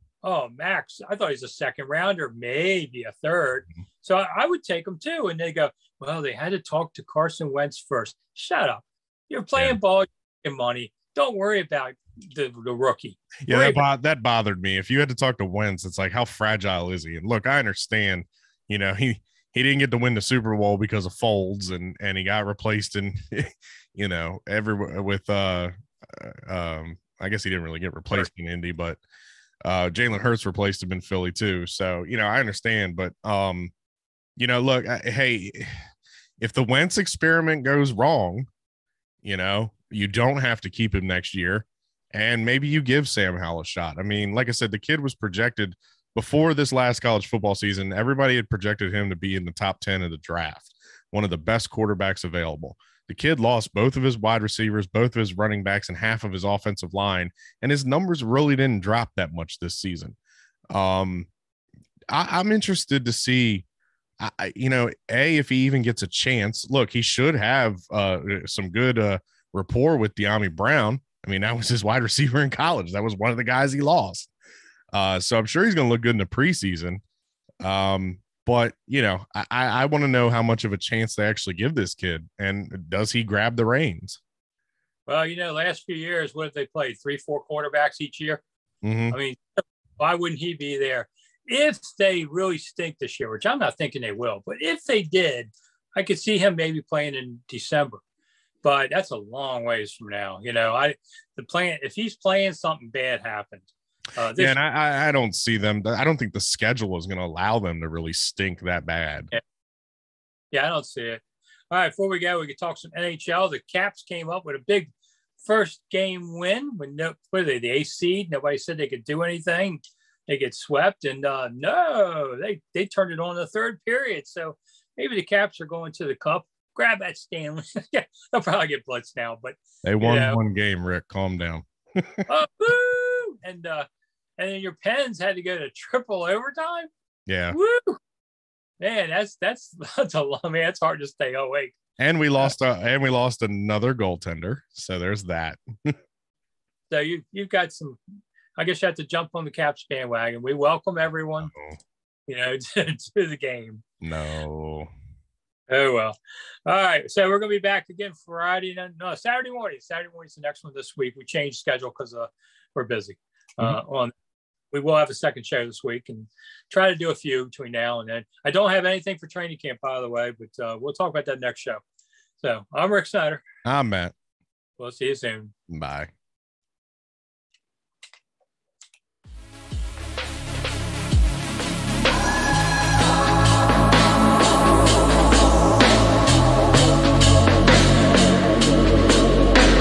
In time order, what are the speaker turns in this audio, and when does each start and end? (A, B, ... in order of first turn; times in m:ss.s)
0:00.2-0:13.8 A
0:13.4-0:29.0 B
0:29.6-0:33.7 B
0:34.4-0:35.8 B
0:36.4-0:38.4 B
0:39.2-1:00.2 B
1:00.7-1:01.3 B
1:02.1-1:03.6 B
1:04.2-1:14.3 B
1:14.9-1:17.0 B
1:17.6-1:24.2 B
1:25.0-1:28.4 A
1:28.8-1:29.2 B
1:29.1-1:38.0 A
1:38.6-1:44.6 A
1:44.4-1:49.3 B
1:50.5-1:54.9 A
1:55.4-2:10.4 A
2:09.8-2:12.3 B
2:12.3-2:13.9 A
2:14.4-2:16.9 A
2:17.3-2:17.6 B
2:17.5-2:18.0 A
2:18.8-2:21.7 A
2:22.0-2:26.0 B
2:26.9-2:28.0 A
2:28.6-2:31.5 A
2:31.4-2:31.8 B
2:32.3-2:33.8 A
2:34.0-2:34.9 B
2:35.7-2:44.1 A
2:44.7-2:51.8 A
2:52.4-2:53.4 A
2:53.6-2:54.1 B
2:54.8-2:55.5 A
2:55.7-2:56.1 B